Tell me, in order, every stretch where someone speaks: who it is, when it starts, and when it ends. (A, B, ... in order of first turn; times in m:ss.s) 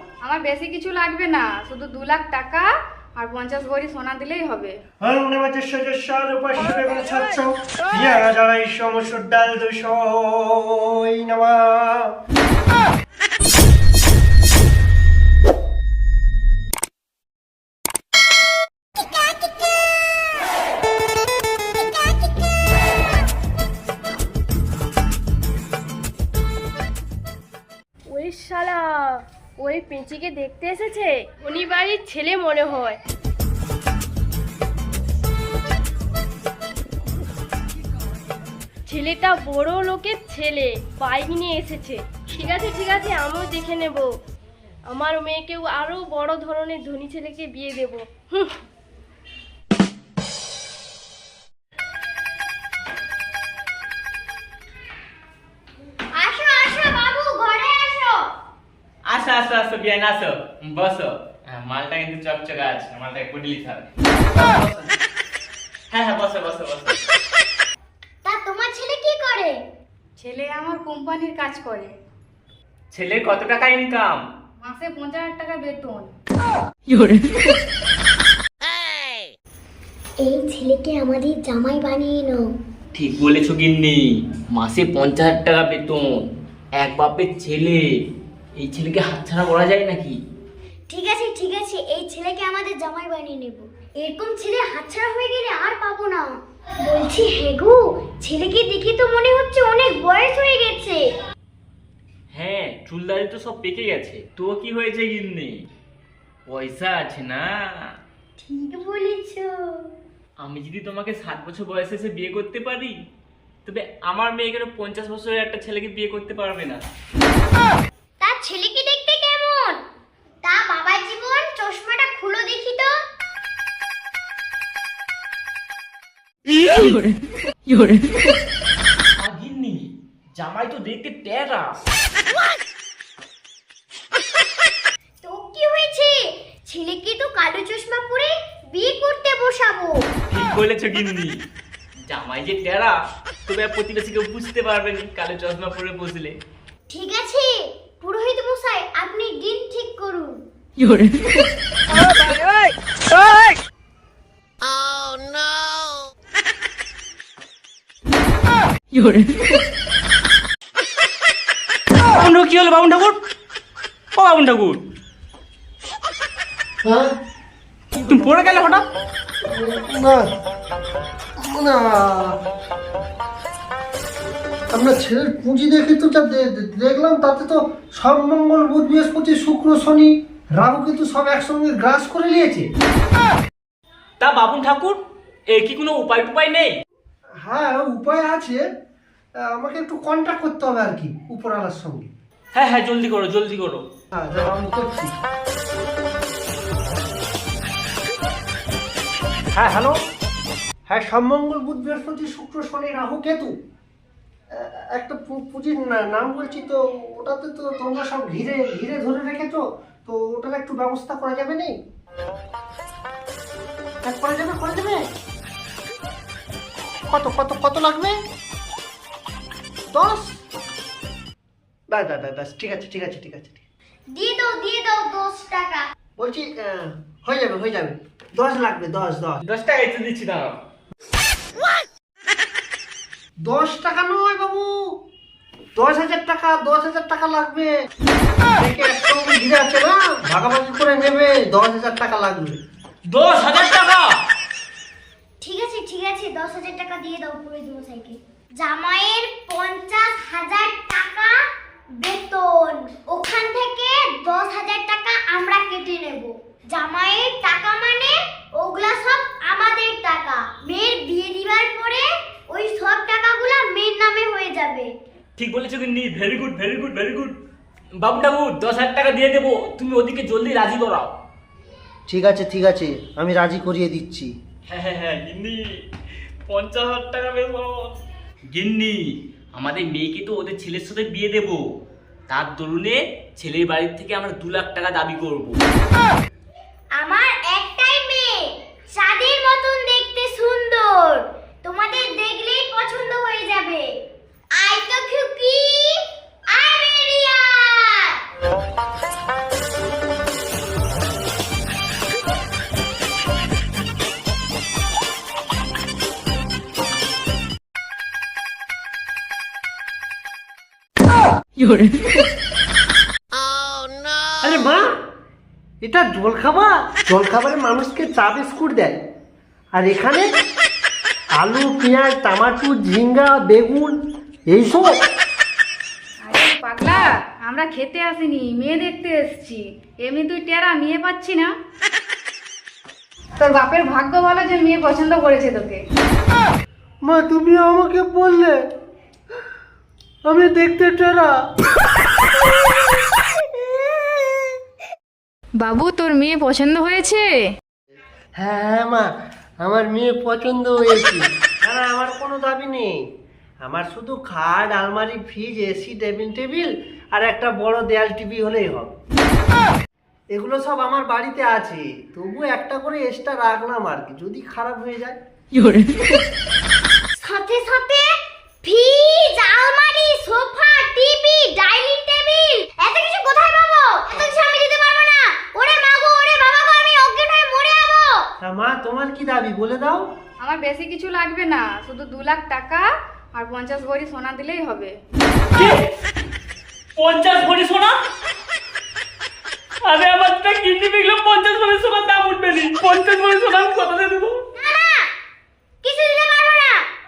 0:00.2-0:04.8 A
0:05.0-0:12.1 B
0:28.1-0:33.0 C
0:38.9-0:44.1 C
0:44.9-0:48.5 C
0:56.1-0:58.3 D
0:59.1-1:04.9 E
1:05.9-1:07.0 E
1:08.2-1:09.6 D
1:10.2-1:11.9 A
1:12.9-1:14.2 E
1:14.6-1:16.1 A
1:20.2-1:22.5 D
1:22.9-1:26.2 E
1:26.8-1:27.8 E
1:28.6-1:30.2 E
1:30.9-1:41.1 D
1:42.3-1:45.6 E
1:46.5-1:47.5 E
1:48.4-1:49.8 D
1:50.4-1:52.9 E
1:53.6-1:56.8 E
1:58.2-1:59.8 D
2:00.4-2:02.9 D
2:09.2-2:11.7 E
2:15.2-2:20.0 D
2:20.3-2:21.3 E
2:22.1-2:23.0 E
2:23.5-2:26.3 E
2:26.9-2:30.3 D
2:42.1-2:43.2 E
2:44.1-2:44.8 E
2:46.8-2:47.1 B
2:48.0-2:48.8 E
2:49.4-2:50.3 B
2:51.4-2:52.4 B
2:54.7-3:02.7 B
3:04.2-3:05.0 E
3:05.5-3:06.7 E
3:07.4-3:08.6 B
3:09.4-3:12.1 B
3:12.5-3:13.8 E
3:14.1-3:15.1 B
3:19.5-3:20.0 B
3:20.9-3:23.5 B
3:24.5-3:31.8 B
3:34.0-3:35.0 B
3:37.1-3:38.1 B
3:39.9-3:40.4 B
3:41.9-3:43.6 B
3:44.1-3:45.9 D
3:46.2-3:49.4 B
3:49.4-3:50.6 E
3:53.4-3:54.9 B
3:55.8-3:57.7 B
3:58.6-4:02.6 B
4:03.1-4:04.1 E
4:05.4-4:11.4 D
4:12.0-4:24.9 D
4:25.4-4:27.3 E
4:28.0-4:31.1 E
4:32.1-4:34.3 B
4:34.7-4:35.7 E
4:36.5-4:37.9 E
4:38.5-4:39.0 E
4:39.5-4:41.6 E
4:42.3-4:45.6 E
4:47.0-4:53.8 D
4:54.5-4:58.2 D
5:14.4-5:14.9 B
5:15.8-5:19.0 B
5:19.7-5:20.2 B
5:21.4-5:24.0 B
5:24.5-5:24.9 B
5:26.2-5:31.5 A
5:33.4-5:35.8 A
5:37.0-5:38.6 B
5:40.3-5:41.4 B
5:45.6-5:47.4 A
5:48.4-5:49.1 B
5:49.6-5:53.0 B
5:53.6-5:58.9 B
6:00.3-6:05.2 B
6:07.2-6:08.1 D
6:08.6-6:18.3 D
6:18.4-6:20.0 B
6:20.4-6:22.8 A
6:23.4-6:24.9 A
6:27.0-6:27.9 E
6:29.8-6:34.4 E
6:34.6-6:35.0 D
6:35.8-6:36.8 D